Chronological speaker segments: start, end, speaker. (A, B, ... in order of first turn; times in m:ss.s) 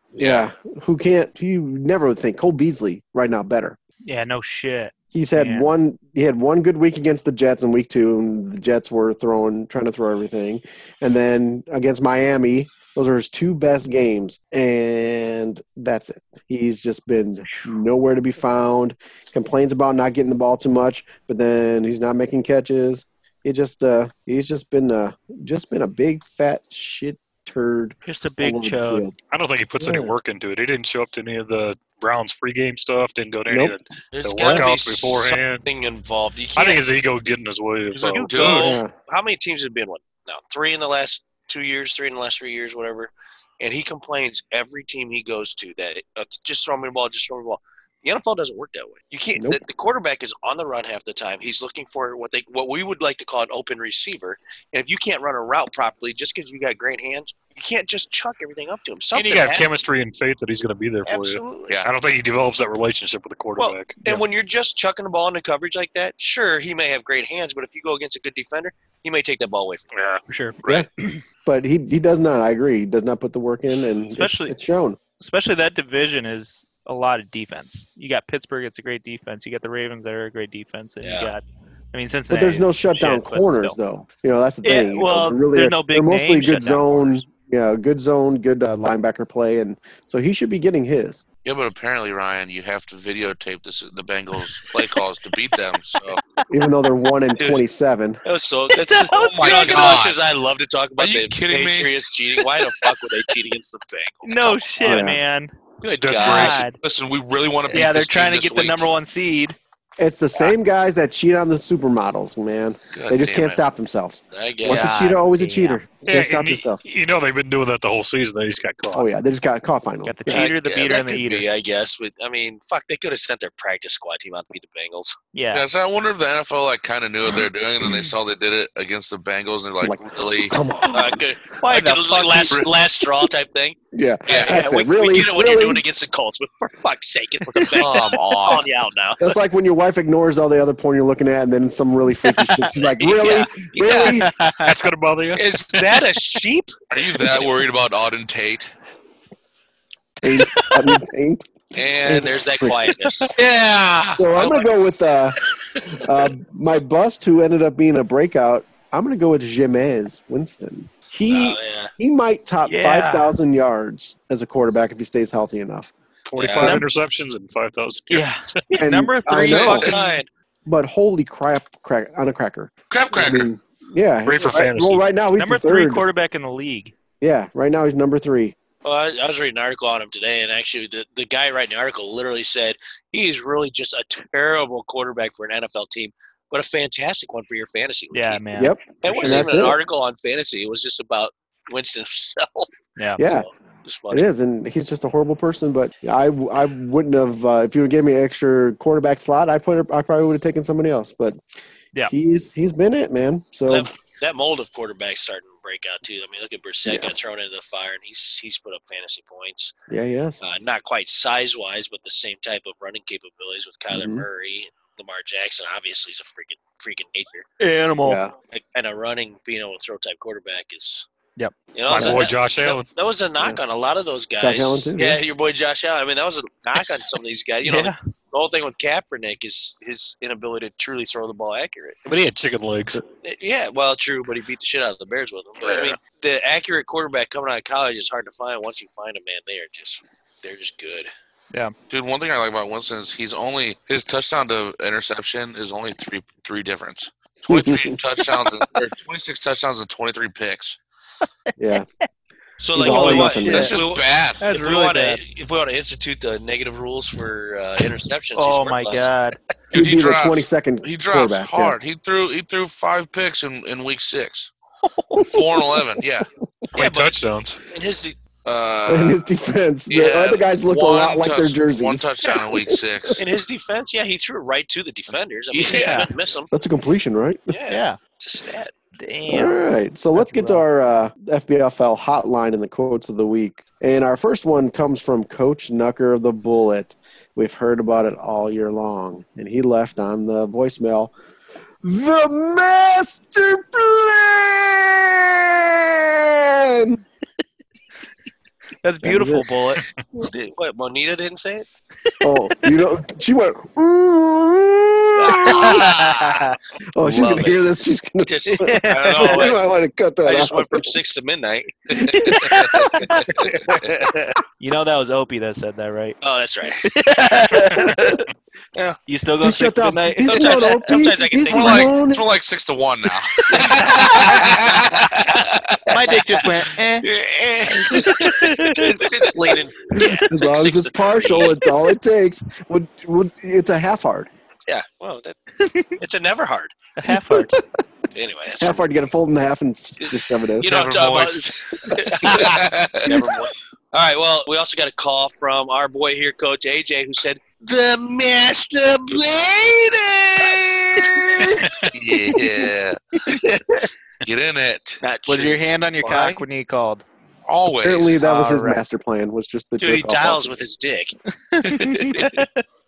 0:00.1-0:00.4 A
0:00.2-0:03.8 B
0:04.0-0:05.7 C
0:05.1-0:29.2 B
0:17.5-0:17.8 C
0:28.0-0:29.1 C
0:29.3-0:35.6 D
0:29.8-0:30.1 B
0:33.5-0:33.7 B
0:34.1-0:36.8 E
0:36.6-0:38.8 D
0:37.9-0:38.8 A
0:38.0-0:59.7 E
0:38.6-0:38.9 B
0:59.1-1:04.1 D
1:01.1-1:01.7 E
1:03.6-1:09.9 E
1:09.9-1:10.2 D
1:10.3-1:11.2 C
1:11.4-1:15.0 B
1:14.2-1:14.5 C
1:15.2-1:23.8 C
1:21.0-1:21.3 E
1:22.3-1:31.2 B
1:24.6-1:27.2 C
1:31.4-1:36.2 A
1:36.5-1:38.2 B
1:37.4-1:37.6 E
1:38.2-1:45.0 E
1:38.7-1:39.9 C
1:39.2-1:40.2 A
1:41.0-1:41.9 A
1:44.2-1:45.5 C
1:44.8-1:45.2 B
1:45.8-1:46.7 D
1:45.9-1:46.6 E
1:46.1-1:48.9 A
1:46.2-1:46.8 C
1:47.7-1:49.6 C
1:50.0-1:56.8 B
1:52.9-1:53.6 A
1:54.3-1:54.9 E
1:54.6-1:55.8 C
1:56.0-1:59.1 D
1:58.9-2:00.5 B
2:00.0-2:01.5 C
2:00.3-2:05.2 E
2:05.3-2:05.6 C
2:05.5-2:10.6 A
2:09.8-2:11.2 B
2:10.9-2:13.8 E
2:11.6-2:12.6 C
2:13.9-2:15.8 B
2:14.3-2:14.6 A
2:14.3-2:19.3 E
2:17.7-2:18.7 A
2:19.2-2:24.3 B
2:22.2-2:22.7 C
2:23.0-2:24.2 E
2:24.2-2:24.7 C
2:24.6-2:25.9 D
2:25.4-2:26.7 E
2:26.9-2:28.7 A
2:30.2-2:31.4 B
2:31.8-2:33.4 E
2:32.0-2:33.1 B
2:33.3-2:34.7 A
2:34.2-2:45.9 B
2:41.3-2:41.9 E
2:42.6-2:43.4 C
2:46.3-2:48.6 D
2:46.4-2:46.8 E
2:48.1-2:50.1 C
2:48.7-2:49.9 B
2:49.5-2:50.1 A
2:49.5-2:50.3 E
2:50.7-2:56.1 B
2:52.9-2:53.5 A
2:54.2-2:55.0 D
2:55.4-2:56.9 C
2:57.2-2:58.6 B
2:58.8-3:08.4 E
3:08.1-3:09.4 C
3:08.6-3:09.8 B
3:09.0-3:14.3 E
3:13.0-3:13.2 C
3:13.2-3:13.5 B
3:14.1-3:21.4 B
3:22.0-3:23.9 B
3:23.7-3:29.7 E
3:26.9-3:27.1 B
3:29.9-3:30.4 B
3:30.4-3:37.5 E
3:33.9-3:34.3 B
3:37.6-3:38.2 C
3:38.0-3:38.4 B
3:38.5-3:41.1 E
3:41.7-3:52.0 E
3:41.9-3:42.9 D
3:44.4-3:45.2 B
3:47.6-3:48.0 C
3:52.1-3:53.0 D
3:53.2-4:01.1 E
3:55.6-3:55.9 A
4:01.9-4:10.8 A
4:07.5-4:08.0 B
4:11.6-4:11.9 B
4:12.6-4:19.1 E
4:12.7-4:13.8 B
4:12.8-4:13.7 C
4:13.5-4:14.4 A
4:14.4-4:15.2 C
4:18.4-4:19.4 C
4:19.7-4:21.8 B
4:19.7-4:24.5 A
4:24.8-4:25.2 C
4:25.2-4:26.3 A
4:26.7-4:27.6 D
4:26.8-4:28.2 E
4:28.4-4:29.2 A
4:28.9-4:33.2 B
4:29.9-4:33.2 A
4:33.2-4:36.5 E
4:35.5-4:36.0 A
4:35.7-4:36.1 C
4:36.5-4:37.5 B
4:37.5-4:38.7 E
4:37.7-4:38.0 C
4:39.0-4:39.6 C
4:39.3-4:51.1 B
4:40.2-4:40.6 C
4:51.8-4:57.0 B
4:58.8-4:59.8 C
4:59.0-4:59.5 B
5:00.2-5:01.7 E
5:02.1-5:02.7 C
5:02.2-5:05.9 B
5:05.2-5:06.5 E
5:05.4-5:06.6 C
5:06.9-5:11.0 B
5:07.0-5:07.6 E
5:08.2-5:09.6 E
5:08.5-5:09.5 C
5:10.2-5:12.4 E
5:12.1-5:13.3 C
5:12.1-5:12.8 A
5:13.2-5:14.4 E
5:14.6-5:16.2 C
5:16.2-5:16.9 E
5:16.8-5:18.2 C
5:17.6-5:17.9 E
5:17.7-5:18.2 B
5:19.1-5:20.9 C
5:19.4-5:22.2 B
5:20.3-5:22.0 E
5:21.5-5:25.8 A
5:23.5-5:25.4 E
5:25.9-5:27.1 C
5:26.0-5:26.4 E
5:27.0-5:31.6 E
5:27.9-5:29.0 C
5:29.9-5:34.3 B
5:34.7-5:35.4 E
5:35.6-5:36.0 C
5:36.0-5:36.7 E
5:37.0-5:37.6 C
5:37.1-5:37.6 B
5:38.1-5:38.9 E
5:38.6-5:40.7 B
5:40.0-5:51.6 E
5:40.6-5:43.2 A
5:51.4-5:51.9 C
5:51.9-5:53.0 A
5:53.3-5:53.9 E
5:54.2-5:55.0 A
5:55.0-5:56.4 E
5:55.3-5:57.0 C
5:57.5-5:58.2 A
5:57.8-6:00.6 B
5:58.2-5:58.8 C
5:59.8-6:01.2 E
6:01.5-6:02.6 C
6:01.6-6:02.4 A